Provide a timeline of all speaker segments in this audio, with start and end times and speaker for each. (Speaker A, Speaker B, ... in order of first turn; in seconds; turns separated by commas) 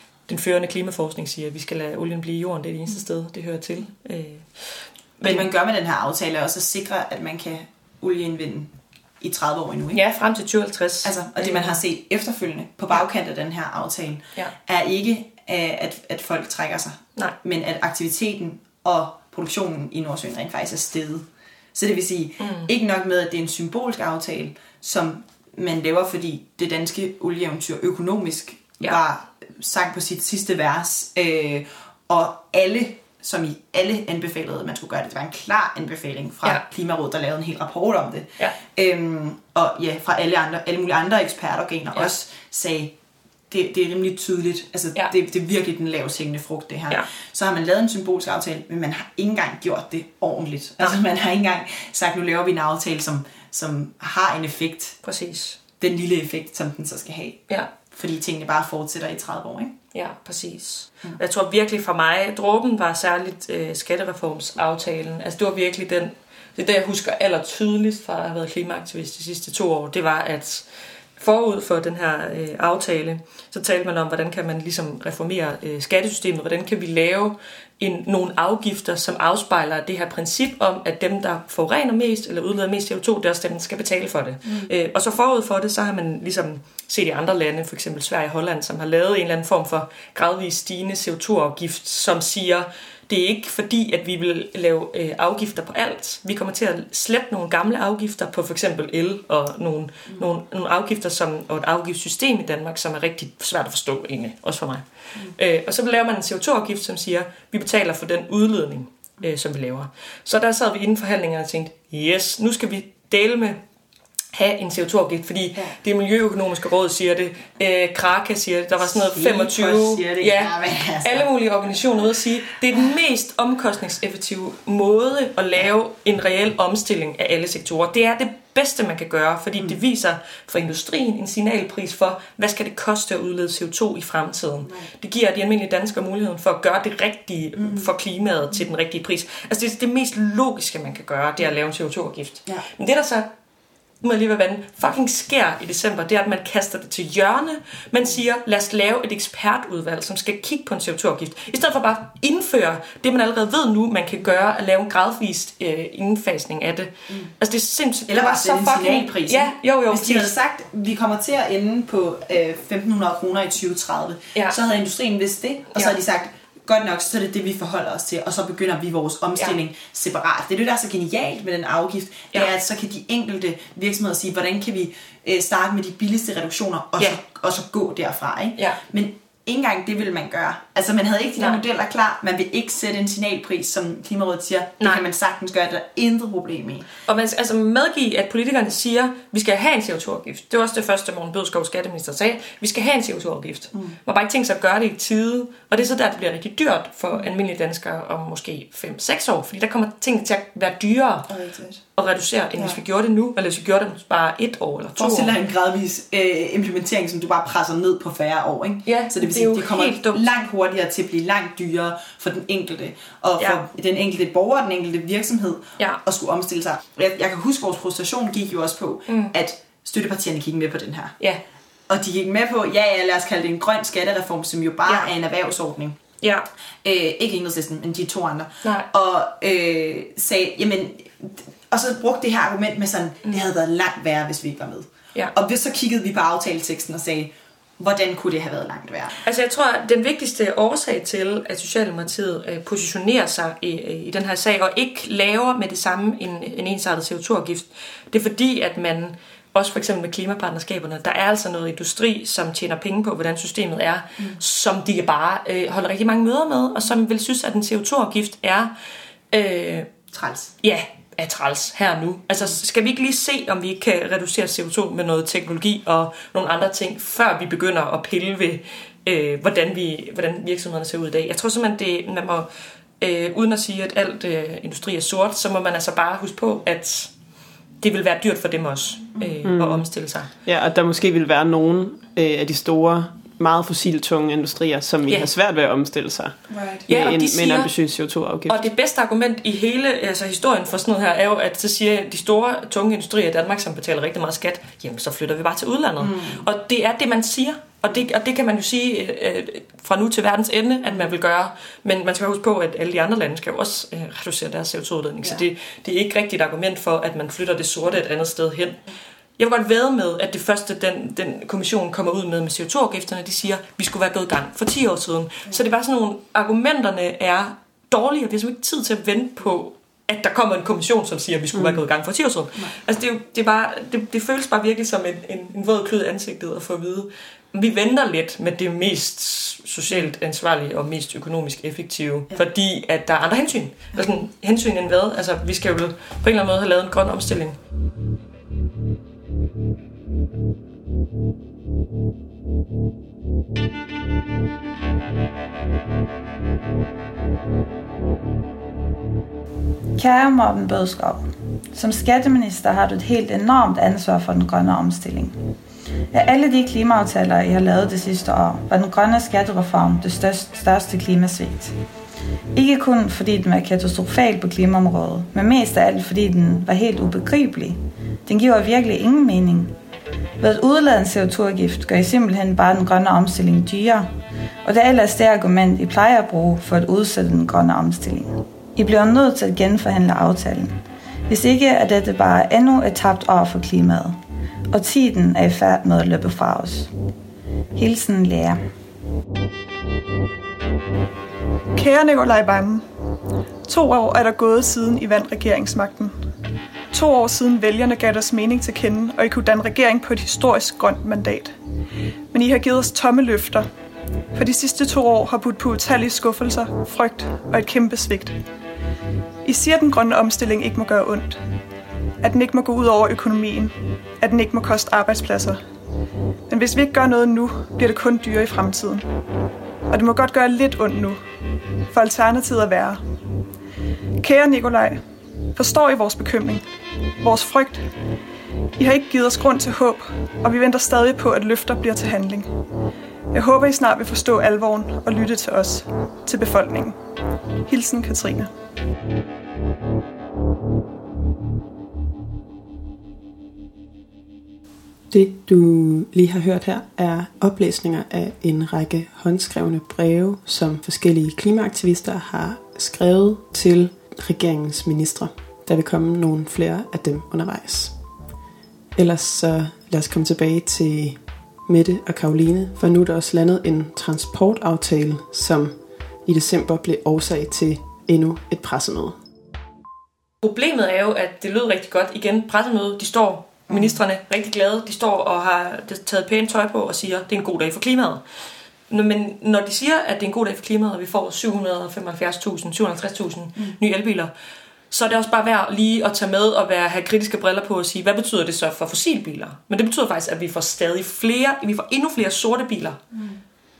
Speaker A: 0.3-5.5, Speaker B: 5.2-10.0, Speaker A: 9.9-11.8, Speaker B: 11.0-42.9, Speaker A: 22.4-22.7, Speaker B: 43.5-55.0, Speaker A: 55.0-55.6, Speaker B: 55.8-59.8, Speaker A: 59.9-113.6, Speaker B: 84.4-84.7, Speaker A: 114.3-143.3, Speaker B: 118.8-121.3, Speaker B: 137.6-137.9, Speaker A: 144.0-160.3, Speaker B: 158.1-186.9, Speaker A: 184.8-185.1, Speaker A: 187.1-201.3, Speaker B: 201.3-201.8, Speaker A: 201.9-205.4, Speaker B: 205.0-221.2, Speaker A: 208.9-210.2, Speaker A: 219.1-219.3, Speaker B: 221.9-226.0, Speaker A: 226.2-226.5, Speaker B: 226.8-239.2, Speaker A: 239.2-258.7, Speaker A: 259.3-259.9, Speaker B: 260.1-260.5, Speaker A: 260.6-277.1, Speaker A: 277.8-280.3, Speaker C: 279.4-279.9, Speaker C: 280.4-288.7, Speaker B: 286.5-286.9, Speaker A: 286.9-287.7, Speaker A: 288.5-308.8, Speaker B: 296.0-296.4, Speaker A: 309.4-337.6, Speaker C: 321.5-321.8, Speaker D: 349.9-355.4, Speaker D: 356.1-361.7, Speaker D: 362.6-369.8, Speaker D: 370.4-374.1, Speaker D: 374.6-380.8, Speaker D: 381.3-384.2, Speaker D: 384.7-386.9, Speaker D: 387.7-388.6, Speaker E: 391.7-392.9, Speaker E: 393.6-396.1, Speaker E: 396.9-401.5, Speaker E: 402.3-403.7, Speaker E: 404.3-408.4, Speaker E: 409.4-411.4, Speaker E: 412.2-415.6, Speaker E: 416.5-419.1, Speaker E: 419.9-421.2, Speaker E: 421.9-423.0, Speaker E: 424.2-425.0, Speaker E: 425.6-426.6, Speaker E: 427.2-427.9, Speaker E: 428.8-432.5, Speaker E: 433.3-437.0, Speaker E: 437.6-438.5, Speaker C: 445.1-457.9, Speaker C: 458.9-469.2, Speaker A: 470.4-478.2, Speaker B: 473.7-474.0, Speaker A: 478.9-484.3, Speaker A: 484.9-493.0, Speaker B: 493.1-493.4